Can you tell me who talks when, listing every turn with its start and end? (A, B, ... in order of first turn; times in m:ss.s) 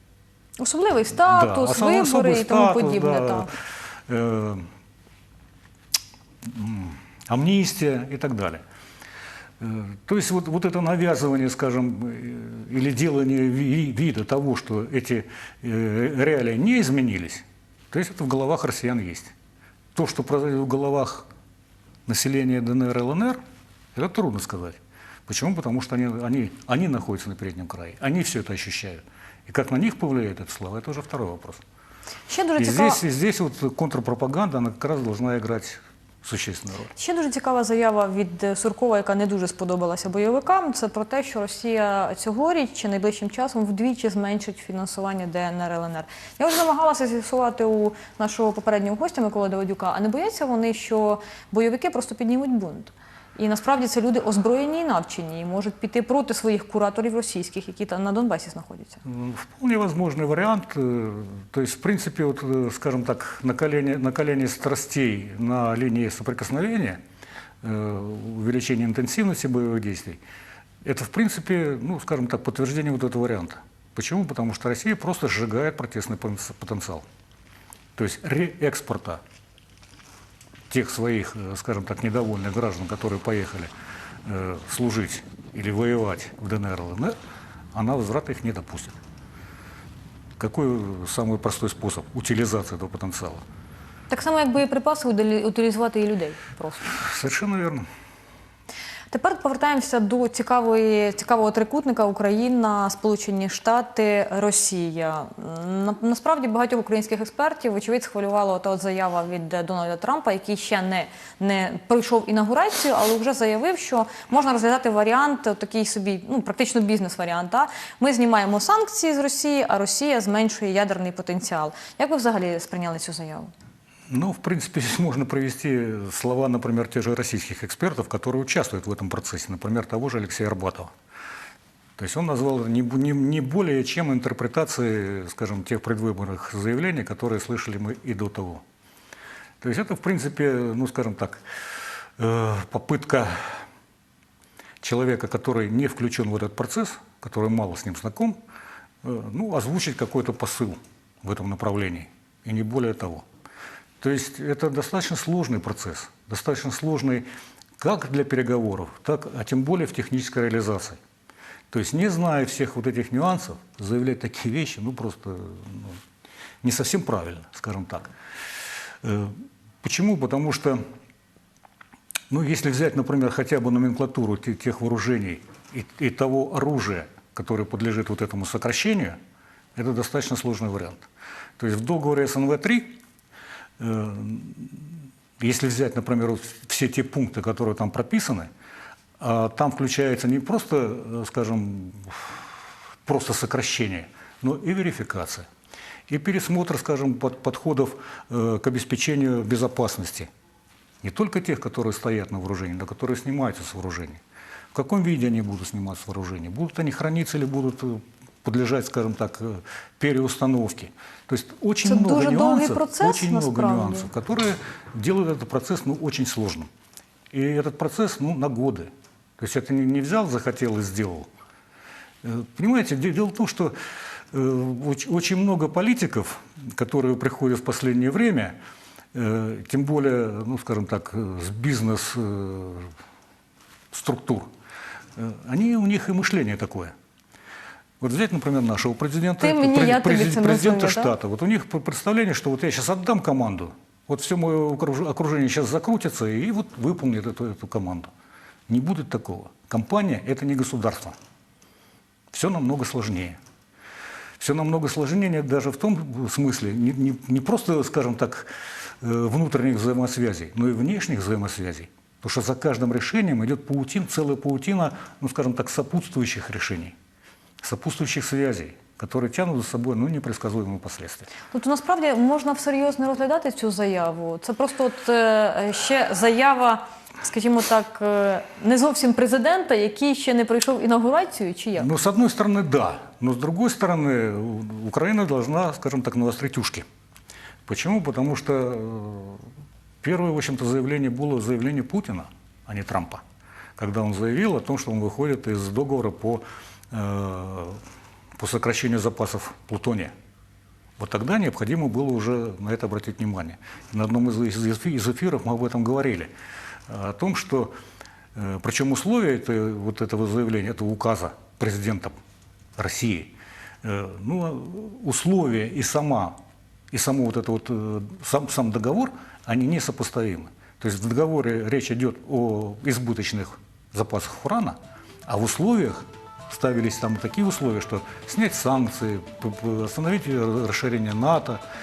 0:00.6-0:03.5 A
0:01.3-0:04.7 B
0:06.4-0:08.6 B
0:09.6-0:19.3 B
0:19.9-0:21.3 B
0:22.0-0:23.4 B
0:23.9-0:31.6 B
0:32.3-0:33.0 A
0:32.6-0:36.9 B
0:36.9-0:59.0 A
0:59.0-1:07.0 B
1:07.6-1:10.2 B
1:10.8-1:17.0 B
1:18.0-1:19.2 B
1:20.7-1:23.7 B
1:24.2-1:27.1 B
1:27.7-1:29.0 B
1:30.4-1:33.4 B
1:34.1-1:37.0 A
1:36.9-1:37.9 B
1:39.1-2:03.5 A
2:04.1-2:10.9 B
2:12.0-2:18.6 B
2:19.6-2:21.4 B
2:22.2-2:23.6 B
2:24.8-2:28.4 B
2:29.0-2:33.2 B
2:34.0-2:37.2 B
2:37.8-2:41.0 B
2:41.7-2:46.0 B
2:46.6-2:48.1 B
2:49.0-2:50.8 B
2:52.3-2:59.2 B
2:59.7-3:01.0 B
3:01.6-3:03.0 B
3:03.8-3:08.5 B
3:09.2-3:12.5 B
3:13.0-3:15.5 B
3:16.1-3:20.3 B
3:21.0-3:24.2 B
3:24.7-3:36.7 B
3:31.8-3:34.1 A
3:37.3-3:41.3 B
3:42.2-3:43.8 B
3:44.3-3:48.6 B
3:49.1-3:52.9 B
3:53.9-3:54.5 B
3:55.2-3:56.9 B
3:58.0-4:08.1 B
3:59.4-4:01.1 A
4:08.7-4:11.2 B
4:12.3-4:13.4 B
4:14.4-4:27.0 B
4:27.6-4:31.3 B
4:31.5-4:41.9 A
4:41.8-4:46.8 B
4:47.6-4:49.4 B
4:50.0-4:53.2 B
4:53.8-4:57.8 B
4:58.4-5:00.1 B
5:01.0-5:06.3 B
5:06.9-5:07.7 B
5:08.3-5:12.2 B
5:12.8-5:16.4 B
5:16.9-5:31.6 B